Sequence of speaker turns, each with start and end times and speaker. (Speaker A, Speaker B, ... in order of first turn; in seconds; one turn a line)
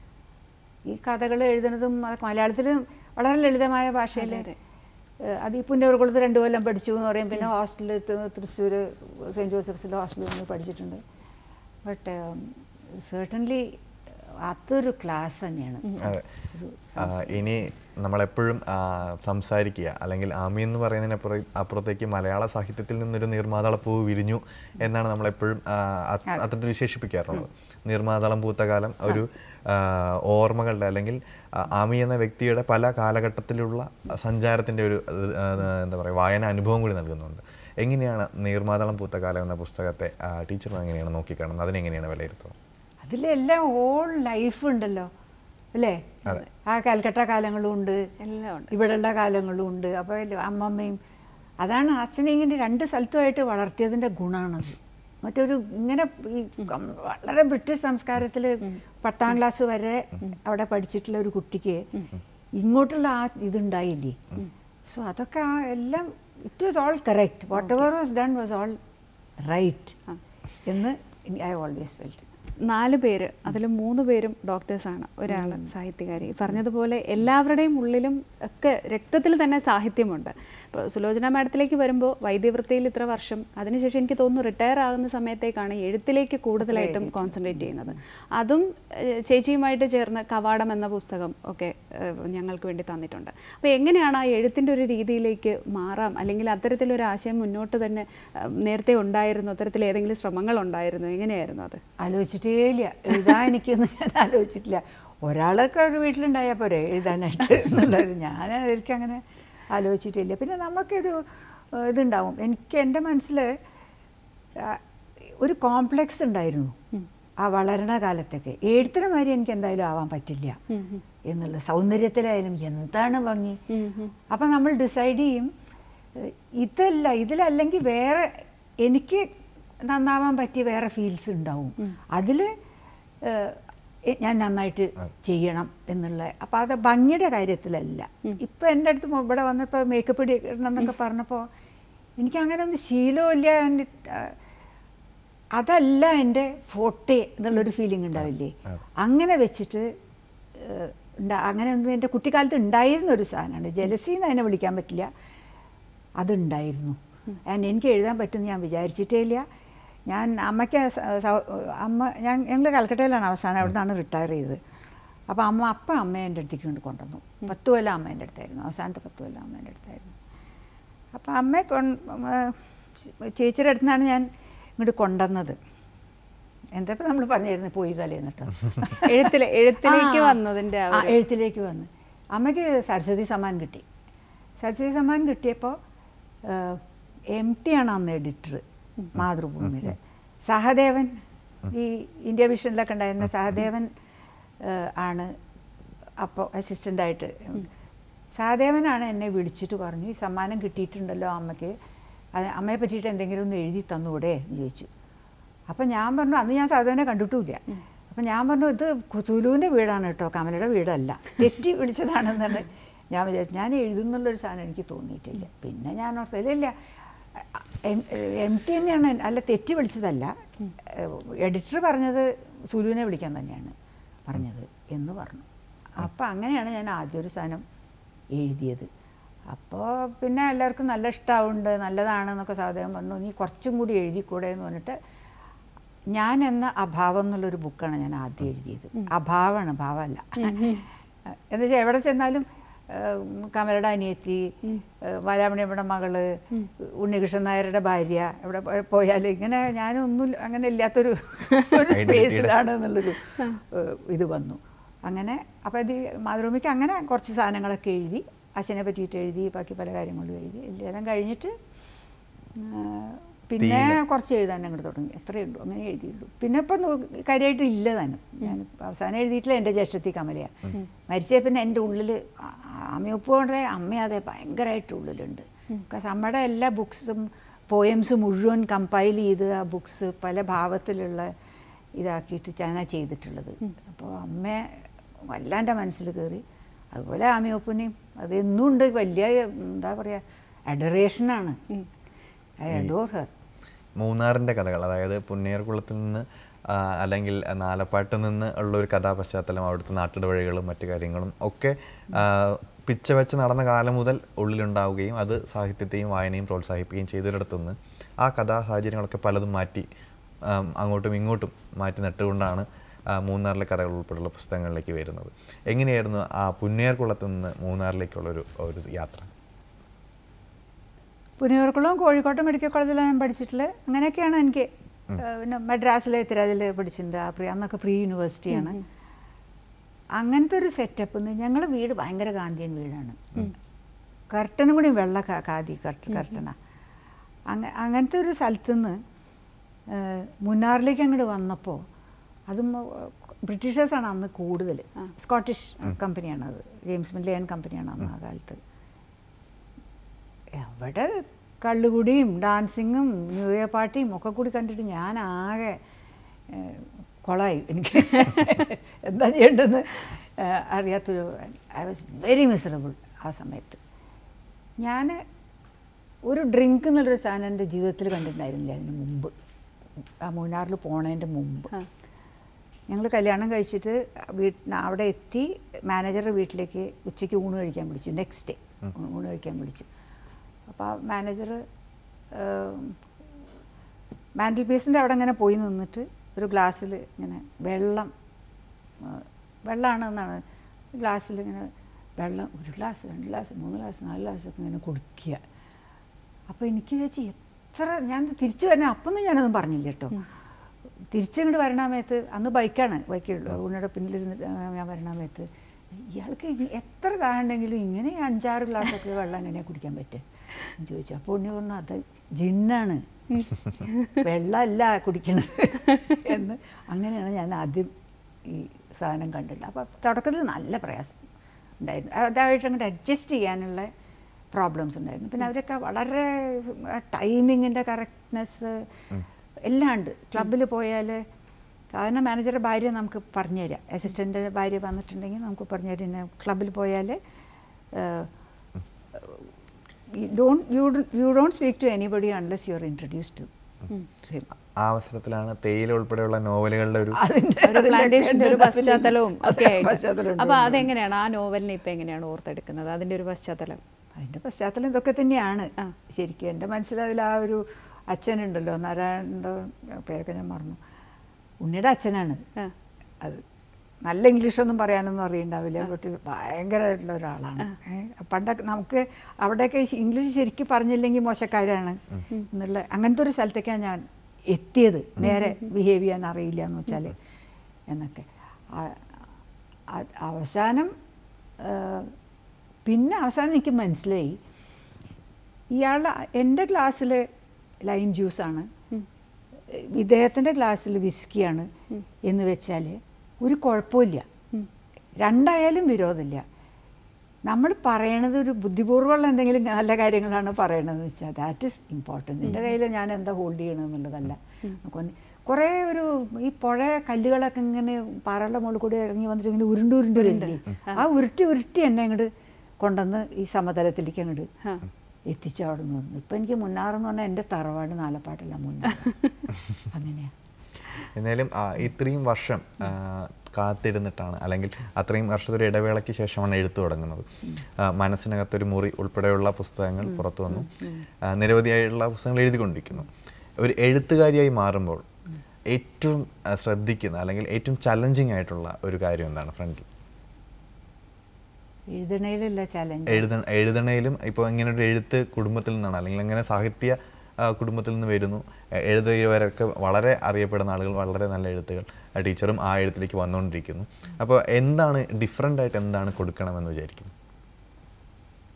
Speaker A: 0.8-4.5
Speaker B: 4.2-4.5
Speaker A: 5.2-11.0
Speaker A: 11.8-13.8
Speaker A: 14.4-17.4
Speaker C: 17.0-42.5
Speaker A: 43.0-45.1
Speaker A: 45.7-48.1
Speaker B: 48.2-48.7
Speaker A: 48.7-51.0
Speaker A: 51.6-61.9
Speaker A: 62.5-64.2
Speaker A: 64.9-68.8
Speaker A: 69.4-70.0
Speaker A: 70.6-72.2
Speaker B: 72.7-101.8
Speaker A: 75.3-75.7
Speaker A: 86.6-87.9
Speaker A: 102.0-113.6
Speaker A: 114.5-114.8
Speaker A: 115.4-116.8
Speaker A: 117.4-120.6
Speaker B: 120.7-121.0
Speaker A: 121.3-123.6
Speaker B: 123.7-124.1
Speaker A: 124.3-125.5
Speaker A: 126.1-129.3
Speaker A: 129.8-132.5
Speaker A: 133.2-141.5
Speaker A: 142.2-144.3
Speaker A: 145.5-149.9
Speaker A: 150.5-155.1
Speaker A: 156.2-159.4
Speaker A: 160.1-164.6
Speaker A: 165.3-170.1
Speaker A: 171.1-174.3
Speaker A: 174.8-175.6
Speaker A: 176.7-180.4
Speaker B: 179.0-181.1
Speaker A: 180.9-183.8
Speaker A: 184.6-185.8
Speaker A: 186.4-188.6
Speaker A: 189.1-193.9
Speaker A: 194.6-195.3
Speaker A: 196.2-197.7
Speaker A: 198.3-201.8
Speaker A: 202.3-204.9
Speaker A: 205.7-216.7
Speaker A: 217.3-223.7
Speaker A: 224.2-227.6
Speaker A: 228.3-228.9
Speaker A: 229.4-235.0
Speaker A: 236.1-261.6
Speaker B: 240.4-240.8
Speaker C: 251.9-252.5
Speaker A: 262.6-281.3
Speaker C: 263.6-264.0
Speaker A: 282.0-291.6
Speaker A: 292.6-293.3
Speaker C: 294.0-309.9
Speaker C: 310.4-319.3
Speaker A: 321.4-328.8
Speaker A: 330.1-333.5
Speaker A: 334.3-336.6
Speaker A: 337.5-339.0
Speaker A: 339.9-341.8
Speaker A: 342.5-348.6
Speaker A: 350.5-355.8
Speaker A: 356.5-363.8
Speaker A: 364.8-365.2
Speaker A: 366.2-369.3
Speaker A: 370.2-371.7
Speaker A: 372.9-379.9
Speaker A: 380.7-381.6
Speaker A: 382.3-383.0
Speaker A: 384.4-388.1
Speaker A: 389.0-390.4
Speaker A: 390.9-395.4
Speaker A: 396.5-400.2
Speaker A: 401.1-413.1
Speaker B: 413.3-414.1
Speaker A: 414.1-417.9
Speaker A: 418.4-421.2
Speaker A: 421.8-423.9
Speaker A: 424.5-428.9
Speaker A: 429.6-431.2
Speaker A: 431.9-437.2
Speaker A: 437.9-438.3
Speaker A: 439.1-439.4
Speaker A: 440.1-443.5
Speaker C: 444.8-447.2
Speaker A: 447.1-450.9
Speaker B: 447.6-453.8
Speaker A: 454.1-460.8
Speaker A: 461.6-462.4
Speaker A: 464.0-477.2
Speaker A: 477.9-479.0
Speaker A: 479.9-480.9
Speaker A: 481.6-482.1
Speaker A: 482.9-484.4
Speaker A: 485.7-487.3
Speaker A: 487.8-488.7
Speaker A: 489.7-491.7
Speaker A: 492.2-494.2
Speaker A: 495.2-496.4
Speaker A: 497.4-514.5
Speaker B: 510.2-511.0
Speaker A: 515.2-520.3
Speaker C: 521.1-535.0
Speaker C: 535.7-539.9
Speaker A: 541.9-543.3
Speaker C: 543.1-557.1